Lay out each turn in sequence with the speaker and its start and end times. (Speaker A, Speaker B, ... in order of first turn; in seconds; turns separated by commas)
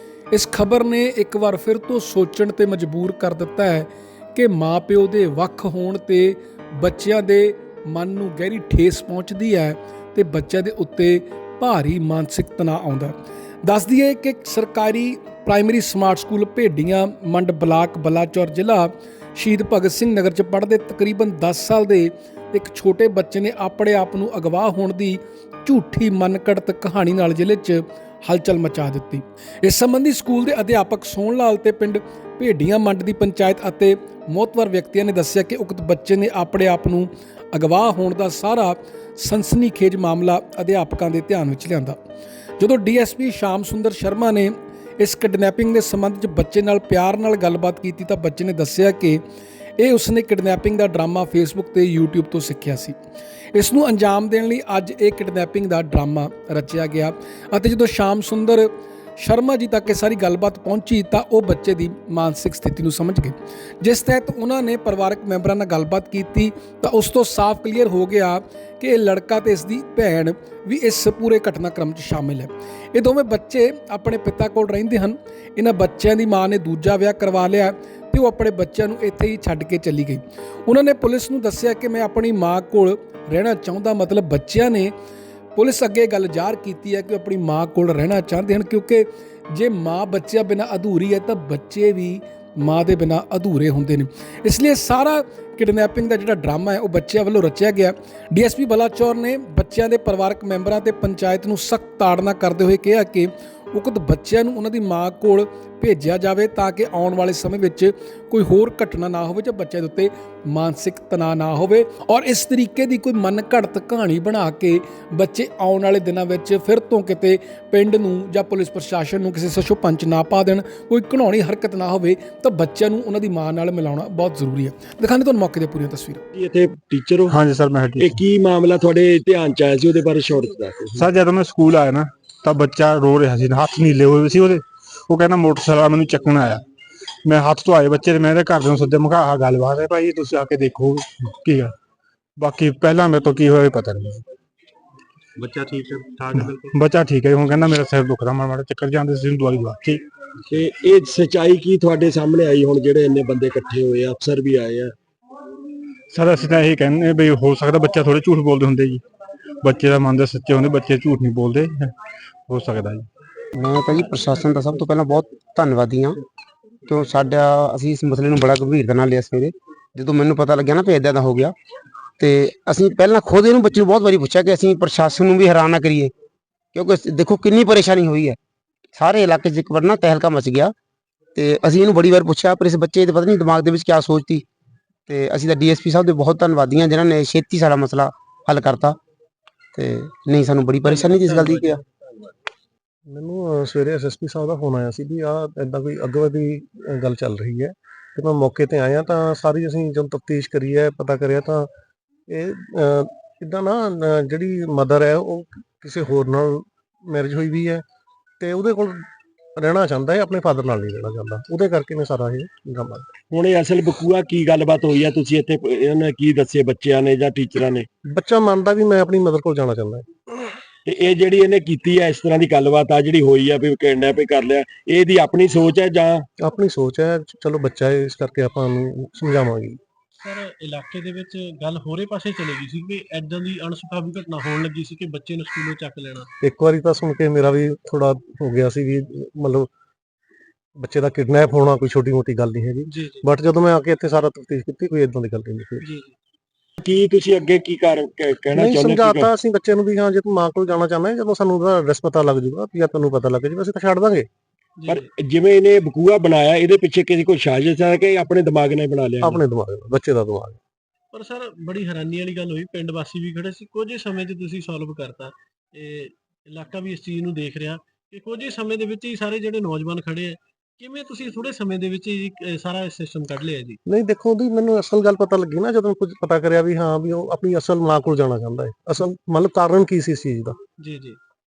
Speaker A: 0.3-42.0, Speaker A: 42.6-49.2, Speaker A: 49.8-53.0, Speaker A: 53.5-84.9, Speaker A: 85.5-126.2, Speaker B: 126.3-127.4, Speaker C: 127.3-128.2, Speaker B: 128.0-131.1, Speaker C: 130.9-136.6, Speaker C: 137.2-141.7, Speaker C: 142.4-144.2, Speaker D: 145.6-146.2, Speaker B: 145.7-146.1, Speaker C: 146.3-150.0, Speaker B: 150.5-154.9, Speaker C: 156.1-159.0, Speaker C: 159.6-161.9, Speaker C: 162.5-163.1, Speaker E: 163.6-166.2, Speaker E: 166.9-171.5, Speaker E: 172.2-176.1, Speaker E: 176.7-178.4, Speaker E: 178.9-180.7, Speaker E: 181.3-184.4, Speaker E: 185.1-189.0, Speaker E: 189.7-191.8, Speaker D: 190.8-191.8, Speaker F: 193.1-201.7, Speaker F: 202.3-207.8, Speaker F: 208.4-209.0, Speaker F: 209.6-213.1, Speaker B: 213.3-217.9, Speaker F: 218.1-220.1, Speaker B: 220.8-226.3, Speaker F: 226.4-229.8, Speaker D: 230.2-236.3, Speaker F: 236.4-239.7, Speaker F: 240.8-245.8, Speaker D: 242.9-243.3, Speaker D: 245.8-246.1, Speaker B: 246.8-249.3, Speaker F: 248.5-254.3, Speaker B: 254.8-259.4, Speaker F: 259.2-260.6, Speaker D: 261.1-273.8, Speaker F: 273.9-280.6, Speaker D: 280.8-281.2